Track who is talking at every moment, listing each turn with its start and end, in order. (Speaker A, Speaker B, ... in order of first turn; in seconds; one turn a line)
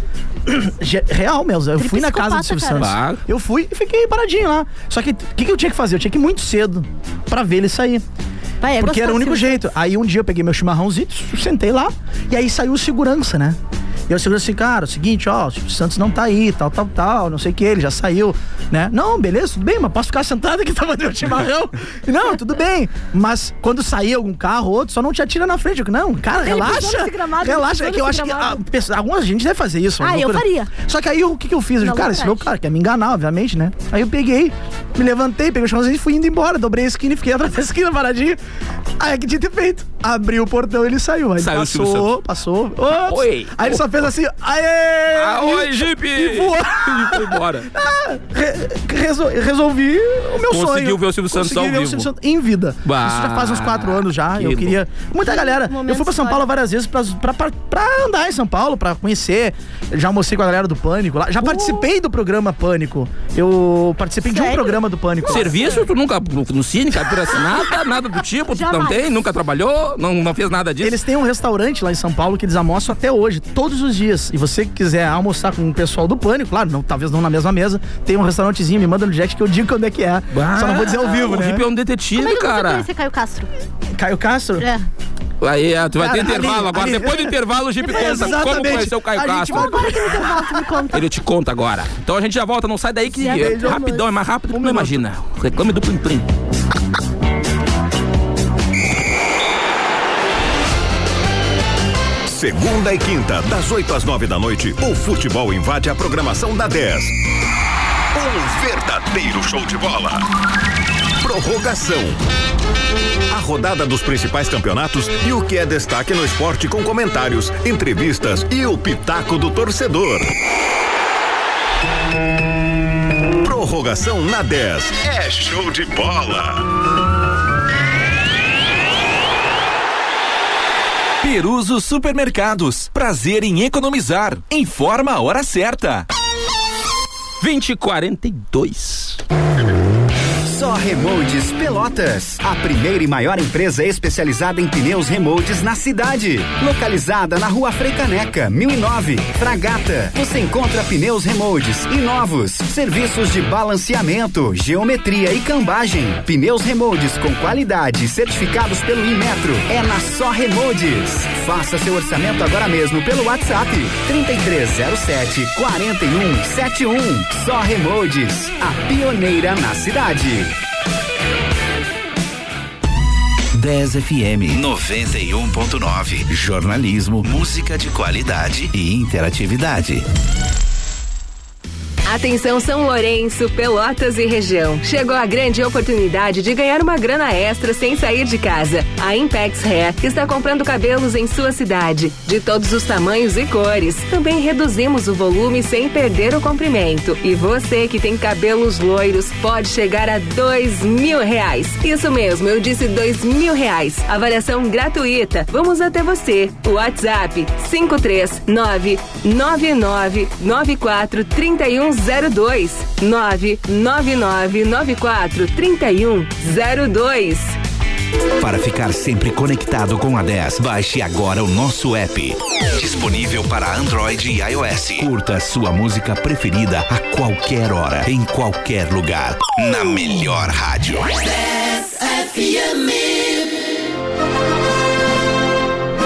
Speaker A: 0.5-8.0
Speaker B: 1.8-2.9
Speaker C: 2.8-3.2
Speaker B: 8.6-9.7
Speaker A: 8.8-13.6
Speaker A: 14.1-38.4
Speaker B: 26.4-28.6
Speaker B: 30.0-30.7
Speaker B: 31.8-32.5
Speaker A: 39.0-65.5
Speaker C: 41.4-42.1
Speaker C: 43.0-43.9
Speaker C: 45.1-47.7
Speaker C: 50.5-52.1
Speaker C: 52.9-54.8
Speaker B: 55.2-56.5
Speaker B: 64.2-65.8
Speaker C: 65.3-71.0
Speaker B: 68.5-69.1
Speaker A: 70.8-81.6
Speaker C: 80.3-82.9
Speaker B: 82.1-83.5
Speaker A: 83.9-84.7
Speaker B: 84.6-84.9
Speaker C: 85.4-90.0
Speaker A: 86.0-90.9
Speaker B: 87.8-88.9
Speaker B: 89.4-91.0
Speaker C: 90.9-96.3
Speaker B: 93.2-94.0
Speaker A: 93.2-93.9
Speaker A: 94.5-95.0
Speaker D: 102.3-107.2
Speaker D: 108.1-110.3
Speaker D: 111.2-112.2
Speaker D: 113.3-120.3
Speaker D: 123.4-126.6
Speaker E: 131.2-136.1
Speaker C: 137.4-139.2
Speaker F: 140.4-170.5
Speaker G: 173.5-180.1
Speaker H: 182.1-217.6
Speaker G: 218.4-231.2